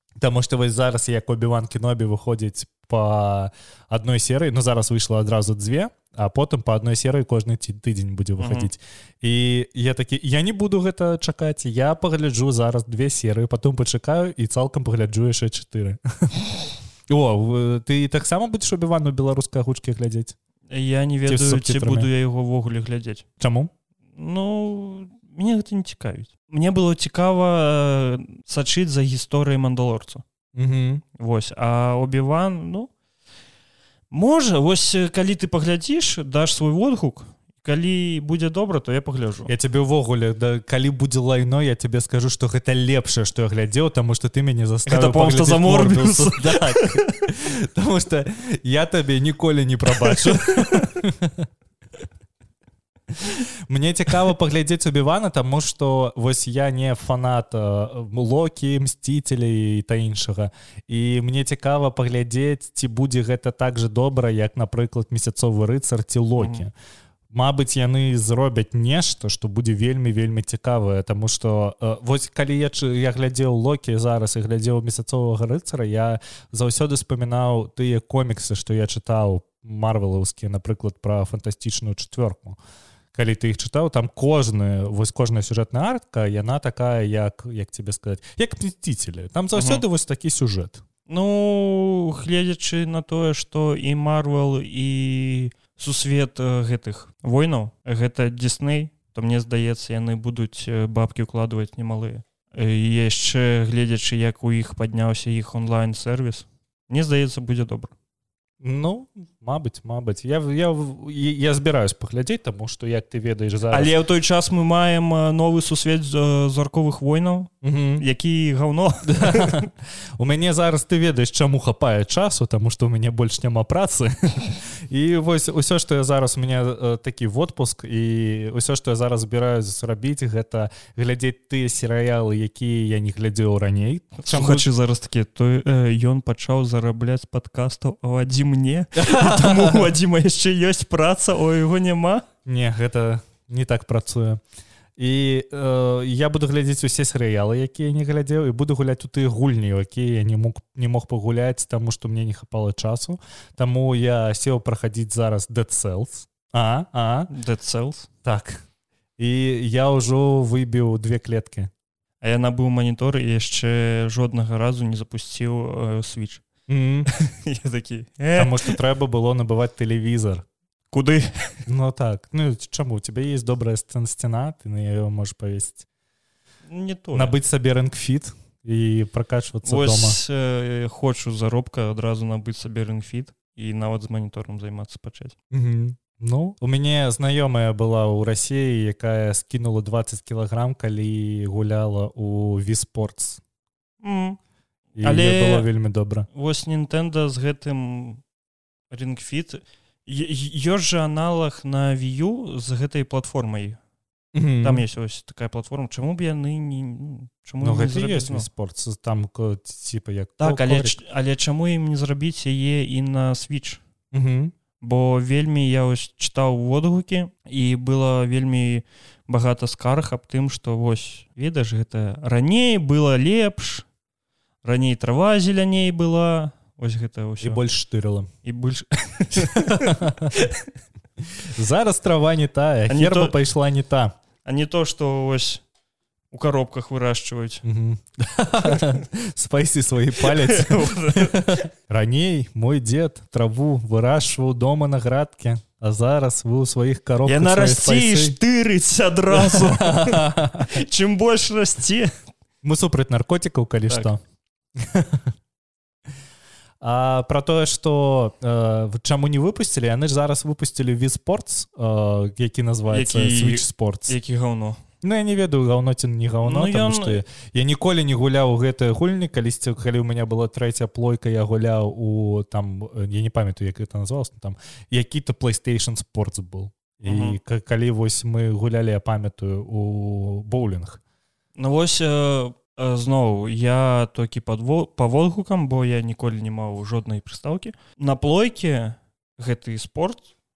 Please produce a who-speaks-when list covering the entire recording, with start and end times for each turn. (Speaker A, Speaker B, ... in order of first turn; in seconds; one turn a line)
Speaker A: 0.2-20.3
Speaker B: 8.4-8.7
Speaker B: 20.7-23.2
Speaker A: 21.3-22.1
Speaker A: 23.4-23.7
Speaker B: 24.1-30.2
Speaker A: 30.5-31.0
Speaker B: 31.2-32.9
Speaker B: 34.1-39.5
Speaker A: 39.5-51.5
Speaker B: 44.9-47.2
Speaker B: 50.0-50.9
Speaker A: 53.2-66.7
Speaker B: 66.4-66.6
Speaker A: 67.3-82.6
Speaker A: 83.1-90.8
Speaker B: 89.5-89.8
Speaker B: 91.1-107.9
Speaker A: 108.6-113.9
Speaker B: 113.7-119.7
Speaker A: 117.6-118.0
Speaker A: 119.0-134.7
Speaker B: 134.2-142.2
Speaker A: 138.9-139.9
Speaker A: 142.4-144.4
Speaker A: 145.0-157.3
Speaker B: 157.3-158.1
Speaker A: 158.2-158.6
Speaker A: 159.2-161.7
Speaker B: 162.2-166.4
Speaker A: 166.7-167.1
Speaker B: 167.1-168.8
Speaker A: 168.3-170.4
Speaker B: 170.9-171.6
Speaker A: 171.7-175.8
Speaker B: 176.7-177.3
Speaker A: 177.1-180.2
Speaker B: 179.6-185.3
Speaker A: 185.5-193.4
Speaker B: 194.0-194.4
Speaker A: 195.0-196.3
Speaker B: 195.0-195.7
Speaker B: 196.3-198.2
Speaker B: 198.9-203.8
Speaker A: 204.3-204.8
Speaker B: 204.6-208.5
Speaker A: 207.6-211.0
Speaker B: 210.4-213.8
Speaker A: 214.1-214.5
Speaker B: 214.8-223.9
Speaker B: 224.6-227.6
Speaker A: 227.4-228.3
Speaker B: 228.4-230.7
Speaker A: 229.3-230.4
Speaker A: 231.4-234.1
Speaker B: 232.9-233.3
Speaker B: 234.4-235.6
Speaker B: 236.3-237.6
Speaker A: 237.6-248.4
Speaker B: 240.2-241.6
Speaker B: 247.2-252.1
Speaker A: 249.3-250.8
Speaker A: 252.6-254.2
Speaker A: 254.8-255.3
Speaker A: 256.8-264.1
Speaker B: 262.9-264.8
Speaker A: 265.0-281.0
Speaker B: 266.4-267.2
Speaker B: 277.1-277.4
Speaker B: 281.6-290.3